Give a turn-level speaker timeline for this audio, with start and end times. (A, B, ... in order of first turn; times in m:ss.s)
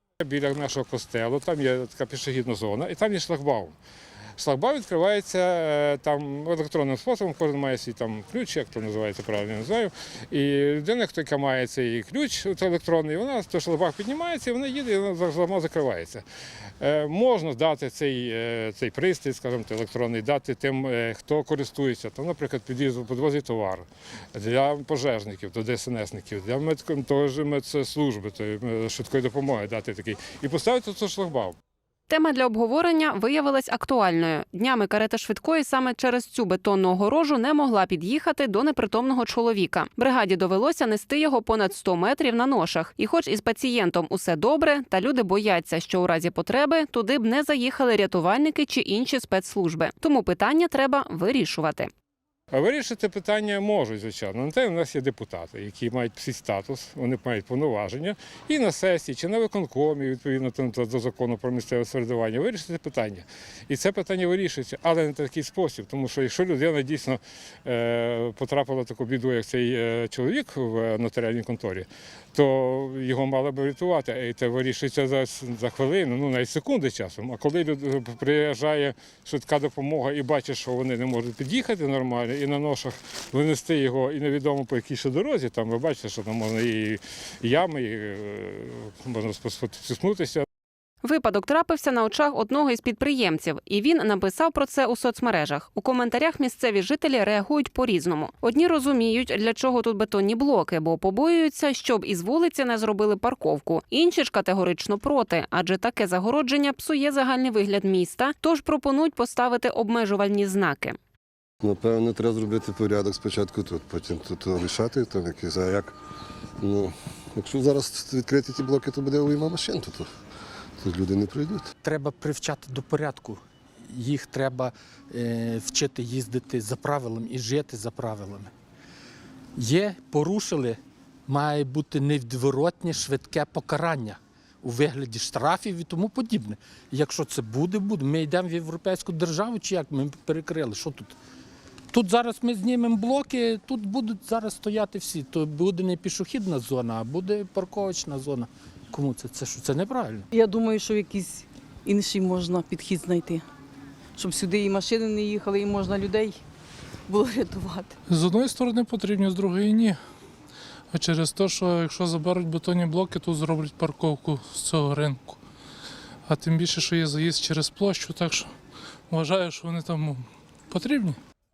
0:00.2-0:03.8 A
0:04.4-0:16.2 A
0:16.8-0:31.6 A
0:32.1-0:51.9 B
0:52.5-1:30.4 A
1:31.0-1:51.0 B
1:51.6-1:56.0 C
1:56.6-2:00.1 C
2:00.8-2:01.7 C
2:01.8-2:08.5 D
2:09.6-2:21.2 D
2:21.9-2:30.3 D
2:30.3-2:33.4 E
2:34.2-2:36.4 E
2:37.1-2:38.0 E
2:38.1-2:40.0 F
2:40.9-2:45.4 F
2:46.3-2:48.5 F
2:49.1-2:51.2 F